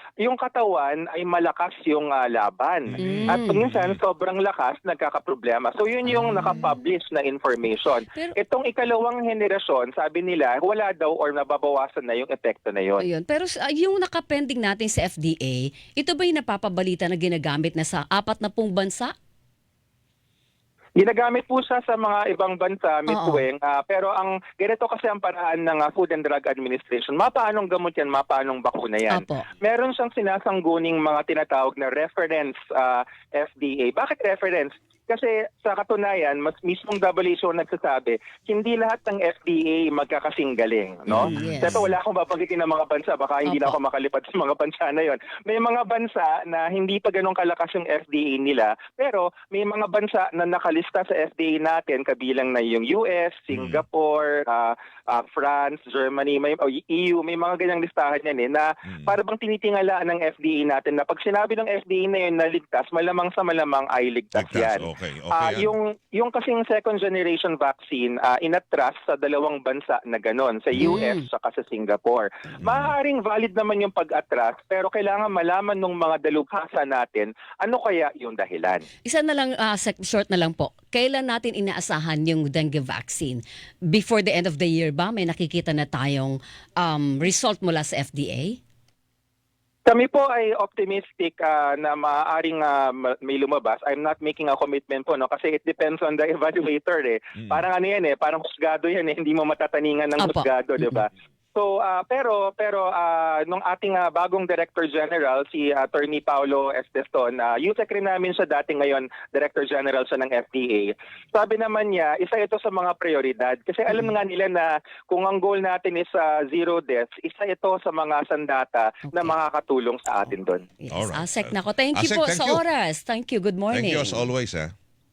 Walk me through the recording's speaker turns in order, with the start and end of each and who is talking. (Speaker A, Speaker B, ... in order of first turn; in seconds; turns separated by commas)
Speaker A: 0.2-13.1, Speaker B: 2.9-4.0, Speaker C: 3.0-3.6, Speaker C: 6.0-6.7, Speaker C: 13.0-19.1, Speaker A: 21.0-78.8, Speaker C: 23.1-23.4, Speaker C: 29.1-29.5, Speaker B: 41.1-41.9, Speaker C: 41.2-41.9, Speaker C: 43.4-43.8, Speaker B: 53.5-53.8, Speaker B: 58.9-59.1, Speaker B: 64.3-65.7, Speaker C: 70.8-71.2, Speaker B: 72.6-72.9, Speaker C: 79.0-88.6, Speaker A: 89.9-120.7, Speaker C: 100.2-101.0, Speaker C: 119.1-119.3, Speaker C: 120.8-124.2, Speaker B: 120.9-122.6, Speaker B: 123.7-124.7